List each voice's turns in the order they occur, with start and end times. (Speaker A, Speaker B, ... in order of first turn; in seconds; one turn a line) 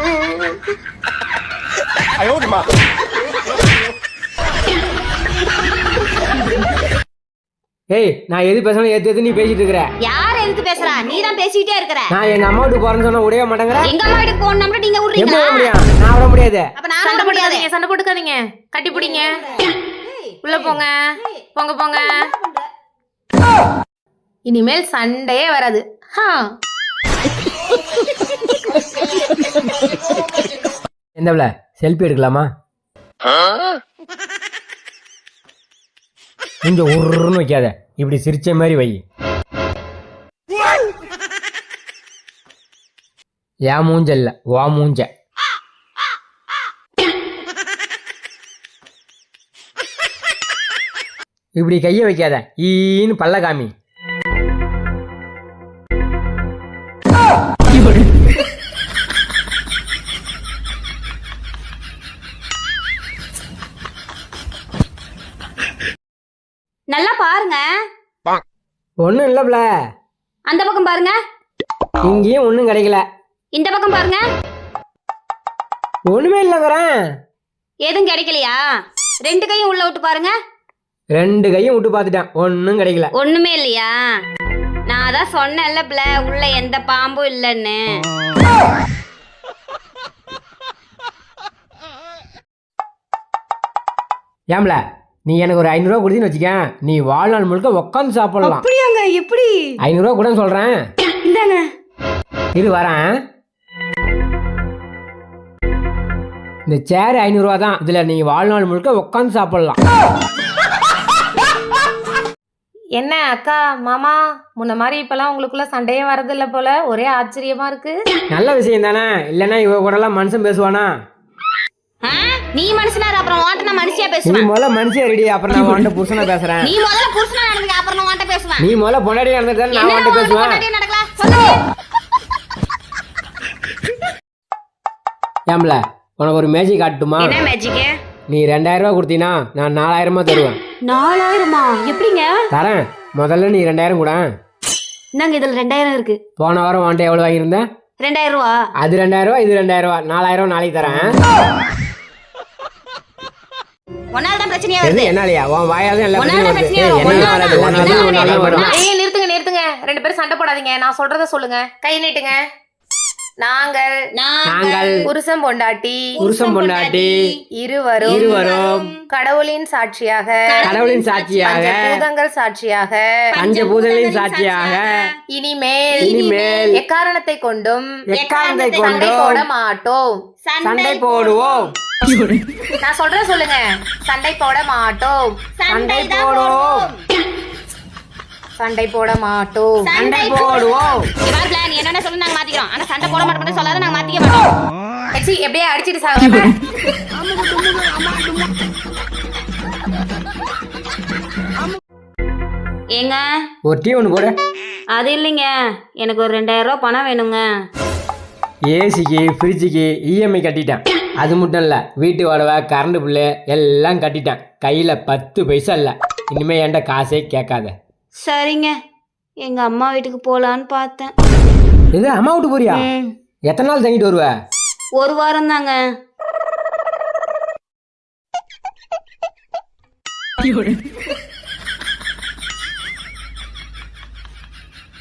Speaker A: 7.9-9.9
Speaker B: 10.0-12.1
Speaker A: 12.1-13.9
Speaker B: 13.8-15.8
Speaker A: 15.2-16.7
Speaker B: 16.8-17.7
Speaker C: 17.0-19.4
Speaker B: 18.9-21.4
Speaker C: 20.4-21.0
Speaker C: 21.6-22.3
Speaker B: 21.9-22.7
Speaker C: 24.5-26.4
Speaker A: 31.2-32.5
Speaker A: 36.6-39.0
Speaker A: 43.7-45.1
Speaker A: 51.6-53.7
Speaker B: 66.9-67.6
Speaker A: 69.0-69.7
Speaker B: 70.5-71.2
Speaker A: 72.0-73.0
Speaker B: 73.5-74.2
Speaker A: 76.1-76.9
Speaker B: 77.8-78.6
Speaker B: 79.2-80.3
Speaker A: 81.2-83.1
Speaker B: 83.2-83.9
Speaker B: 84.9-88.0
Speaker A: 94.5-98.7
Speaker B: 98.4-99.8
Speaker A: 99.8-100.8
Speaker B: 101.2-101.7
Speaker A: 102.5-103.1
Speaker A: 106.7-109.8
Speaker C: 113.0-118.0
Speaker A: 118.3-120.9
Speaker B: 122.0-124.5
Speaker A: 124.3-126.7
Speaker B: 126.6-128.7
Speaker A: 128.6-130.6
Speaker B: 129.7-131.6
Speaker A: 135.5-137.4
Speaker B: 137.2-137.9
Speaker A: 138.3-140.6
Speaker B: 140.9-142.4
Speaker A: 142.5-144.3
Speaker B: 145.2-146.2
Speaker A: 146.4-147.6
Speaker B: 148.0-148.5
Speaker A: 148.8-151.1
Speaker B: 154.1-155.1
Speaker A: 154.8-158.7
Speaker B: 156.2-158.8
Speaker C: 157.0-162.4
Speaker C: 163.4-163.9
Speaker B: 164.2-165.1
Speaker A: 164.5-165.1
Speaker C: 165.1-166.2
Speaker B: 166.2-167.4
Speaker A: 166.2-167.2
Speaker C: 167.6-168.4
Speaker A: 168.0-168.9
Speaker B: 168.1-169.0
Speaker C: 169.1-170.7
Speaker B: 170.5-171.8
Speaker A: 170.7-172.0
Speaker C: 171.4-173.1
Speaker B: 173.3-175.1
Speaker A: 173.3-175.0
Speaker C: 175.3-177.9
Speaker A: 176.0-176.8
Speaker A: 178.1-179.4
Speaker B: 178.1-179.0
Speaker C: 178.7-180.2
Speaker B: 180.4-181.7
Speaker A: 180.6-181.7
Speaker C: 182.8-185.2
Speaker B: 185.6-186.9
Speaker A: 185.7-186.8
Speaker C: 188.6-189.8
Speaker B: 189.8-194.5
Speaker A: 189.9-191.1
Speaker C: 195.2-196.6
Speaker B: 203.0-203.2
Speaker A: 203.7-204.3
Speaker B: 204.9-207.4
Speaker A: 208.7-217.7
Speaker B: 218.2-218.7
Speaker B: 219.4-221.1
Speaker A: 221.9-222.9
Speaker B: 222.7-223.1
Speaker A: 223.5-224.3
Speaker B: 225.0-225.8